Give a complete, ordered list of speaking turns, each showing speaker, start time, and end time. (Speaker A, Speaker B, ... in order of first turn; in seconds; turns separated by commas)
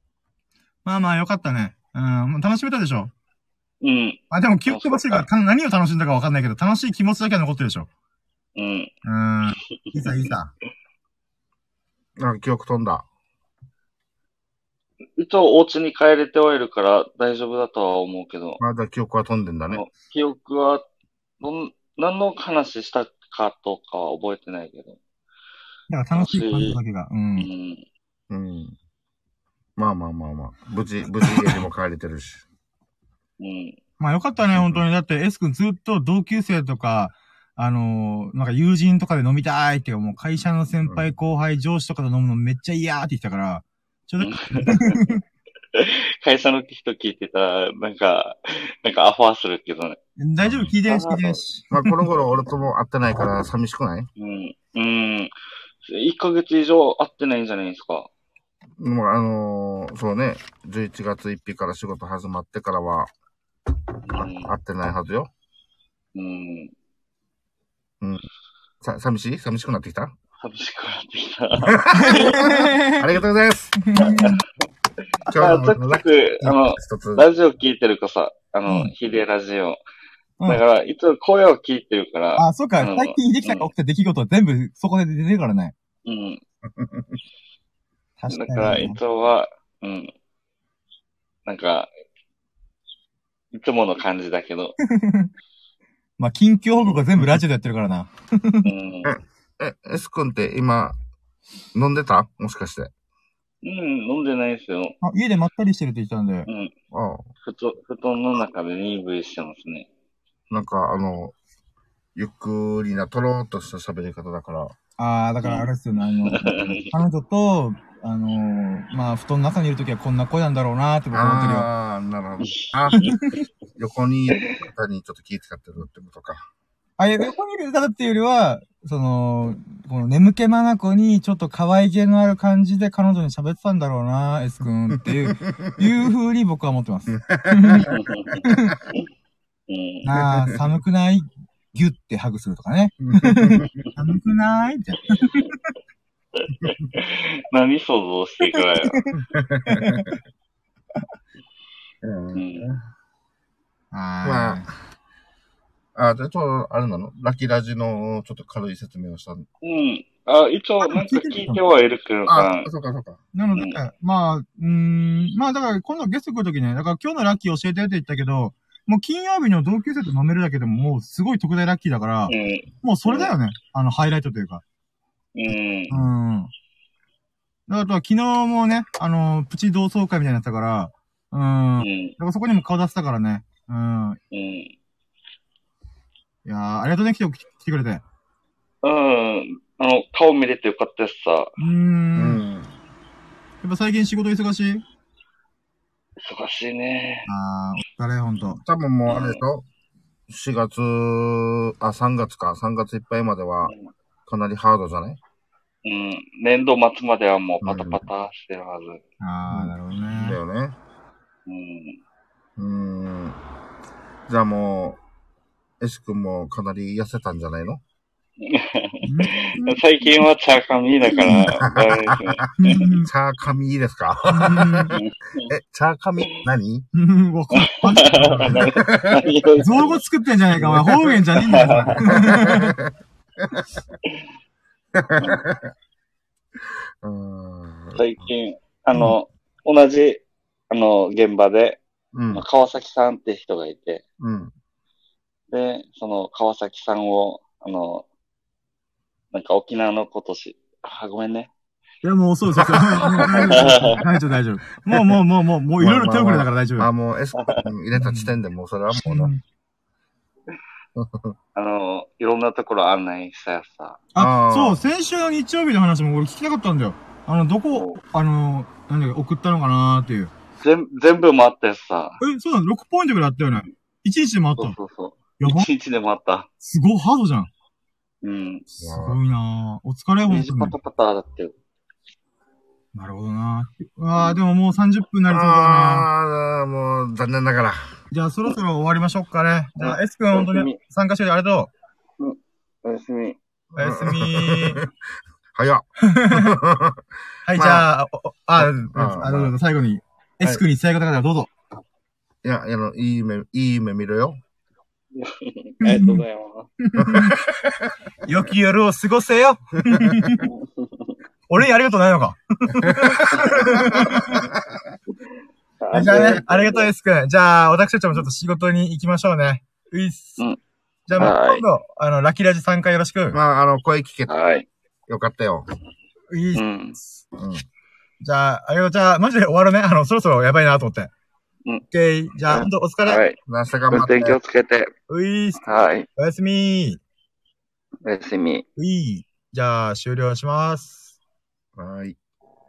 Speaker A: 0.8-3.1, Speaker B: 3.8-5.2, Speaker A: 4.3-7.9, Speaker B: 8.6-8.9, Speaker A: 9.1-10.5, Speaker B: 9.9-10.3, Speaker C: 12.2-13.1, Speaker B: 15.2-18.6, Speaker C: 18.6-19.9, Speaker B: 19.7-20.9, Speaker B: 21.4-25.0, Speaker A: 25.9-27.5, Speaker B: 26.2-26.8, Speaker B: 27.4-27.9, Speaker C: 28.3-28.8, Speaker C: 29.8-32.5, Speaker B: 33.4-33.8, Speaker A: 34.0-45.2, Speaker C: 34.5-34.9, Speaker B: 44.2-45.2, Speaker B: 45.7-50.0, Speaker A: 50.2-52.1, Speaker C: 50.4-50.7, Speaker B: 50.8-51.4, Speaker C: 51.7-54.1, Speaker B: 54.2-55.3, Speaker B: 55.8-58.1, Speaker C: 58.8-63.1, Speaker B: 64.0-64.5, Speaker C: 64.1-65.3, Speaker B: 66.2-66.7, Speaker C: 68.8-70.2, Speaker B: 70.4-72.4, Speaker C: 71.6-73.8, Speaker A: 71.9-73.1, Speaker A: 73.8-74.4, Speaker B: 74.0-74.4, Speaker C: 75.3-77.3, Speaker B: 75.3-79.8, Speaker B: 80.5-83.7, Speaker A: 82.4-85.7, Speaker B: 86.0-86.4, Speaker C: 86.7-87.2, Speaker A: 88.2-89.0, Speaker B: 88.3-90.1, Speaker B: 91.5-91.9, Speaker B: 93.5-94.8, Speaker A: 94.8-95.3, Speaker A: 96.2-98.7, Speaker B: 98.7-99.2, Speaker C: 99.0-101.0, Speaker C: 101.7-102.9, Speaker B: 103.6-105.0, Speaker A: 105.0-106.5, Speaker B: 106.5-106.7, Speaker C: 106.9-107.3, Speaker B: 107.5-109.9, Speaker C: 110.5-111.3, Speaker C: 112.2-114.8, Speaker A: 115.0-121.7, Speaker B: 115.4-115.7, Speaker B: 116.3-116.8, Speaker C: 121.1-123.1, Speaker B: 122.4-123.2, Speaker A: 123.0-123.4, Speaker C: 123.8-126.5, Speaker B: 124.3-124.6, Speaker A: 127.0-138.8, Speaker C: 134.9-135.8, Speaker C: 137.1-138.6, Speaker B: 137.8-138.4, Speaker B: 139.7-140.1, Speaker A: 140.0-145.6, Speaker C: 143.0-143.8, Speaker B: 146.4-149.0, Speaker C: 146.5-146.9, Speaker A: 148.5-149.1, Speaker C: 149.2-150.1, Speaker A: 149.7-150.2, Speaker C: 152.0-152.8, Speaker B: 152.3-152.7, Speaker A: 153.9-154.7, Speaker C: 154.2-154.7, Speaker C: 155.9-159.5, Speaker B: 159.6-162.7, Speaker A: 160.8-161.6, Speaker C: 162.3-163.2, Speaker A: 163.3-174.6, Speaker B: 163.5-163.8, Speaker B: 172.3-173.3, Speaker B: 175.3-176.0, Speaker A: 175.9-176.5, Speaker A: 177.7-184.2, Speaker B: 181.8-182.2, Speaker B: 184.3-184.7, Speaker A: 186.4-188.0, Speaker B: 188.8-191.6, Speaker A: 191.6-192.4, Speaker C: 192.2-192.8, Speaker A: 193.6-194.8, Speaker B: 196.2-197.3, Speaker A: 197.3-198.6, Speaker C: 198.5-199.7, Speaker B: 199.1-199.4, Speaker C: 200.3-203.7, Speaker C: 204.3-205.2, Speaker B: 205.8-209.0, Speaker C: 207.6-208.1, Speaker A: 209.2-210.4, Speaker C: 209.5-210.8, Speaker B: 211.5-212.0, Speaker C: 212.6-213.4, Speaker C: 214.3-215.0, Speaker C: 215.8-217.8, Speaker B: 218.4-222.5, Speaker A: 219.0-219.8, Speaker C: 221.2-226.9, Speaker A: 222.6-223.1, Speaker A: 224.3-225.0, Speaker B: 224.9-225.5, Speaker A: 226.9-228.7, Speaker B: 227.6-230.0, Speaker C: 228.3-229.3, Speaker A: 229.6-232.8, Speaker B: 230.6-232.2, Speaker C: 231.9-233.7, Speaker C: 234.9-235.7, Speaker C: 237.0-238.3, Speaker B: 238.0-241.8, Speaker C: 242.1-242.4, Speaker B: 242.3-244.0, Speaker C: 244.2-244.5, Speaker B: 245.5-248.1, Speaker B: 249.3-251.5, Speaker A: 252.0-256.9, Speaker C: 252.6-254.1, Speaker B: 253.3-254.0, Speaker C: 255.8-259.3, Speaker B: 257.4-257.7, Speaker A: 257.9-258.4, Speaker A: 258.9-259.4, Speaker C: 261.0-261.4, Speaker B: 261.6-264.0, Speaker A: 264.1-270.3, Speaker C: 264.2-264.8, Speaker B: 267.7-268.0, Speaker B: 270.6-272.2, Speaker A: 272.2-274.8, Speaker B: 274.6-276.5, Speaker A: 275.4-275.7, Speaker A: 276.6-277.5, Speaker B: 278.2-278.7, Speaker C: 278.8-279.2, Speaker A: 278.8-280.8, Speaker B: 280.3-281.6, Speaker A: 282.9-286.1, Speaker C: 285.3-287.9, Speaker A: 288.1-291.7, Speaker B: 289.8-290.8, Speaker B: 292.2-293.4, Speaker C: 293.7-294.9, Speaker A: 293.8-294.8, Speaker C: 295.5-297.9, Speaker A: 296.0-296.6, Speaker A: 297.5-301.5, Speaker C: 298.6-299.6, Speaker C: 302.4-304.4, Speaker B: 305.1-306.7, Speaker A: 305.8-306.2, Speaker A: 306.8-307.4, Speaker C: 307.0-307.9, Speaker A: 308.2-310.5, Speaker B: 310.5-311.1, Speaker A: 311.5-314.5, Speaker C: 312.8-314.5, Speaker B: 315.8-316.9, Speaker A: 315.9-320.4, Speaker A: 321.1-323.4, Speaker B: 321.2-321.6, Speaker C: 323.3-324.3, Speaker B: 324.3-324.7, Speaker C: 325.1-325.7, Speaker A: 326.3-327.1, Speaker B: 326.6-327.0, Speaker C: 327.3-327.6, Speaker A: 328.2-331.1, Speaker A: 331.9-333.2, Speaker B: 332.5-333.4, Speaker C: 333.5-334.4, Speaker B: 333.9-334.9, Speaker A: 335.1-337.0, Speaker B: 335.6-336.1, Speaker B: 338.0-338.7, Speaker A: 338.8-341.2, Speaker C: 341.8-342.2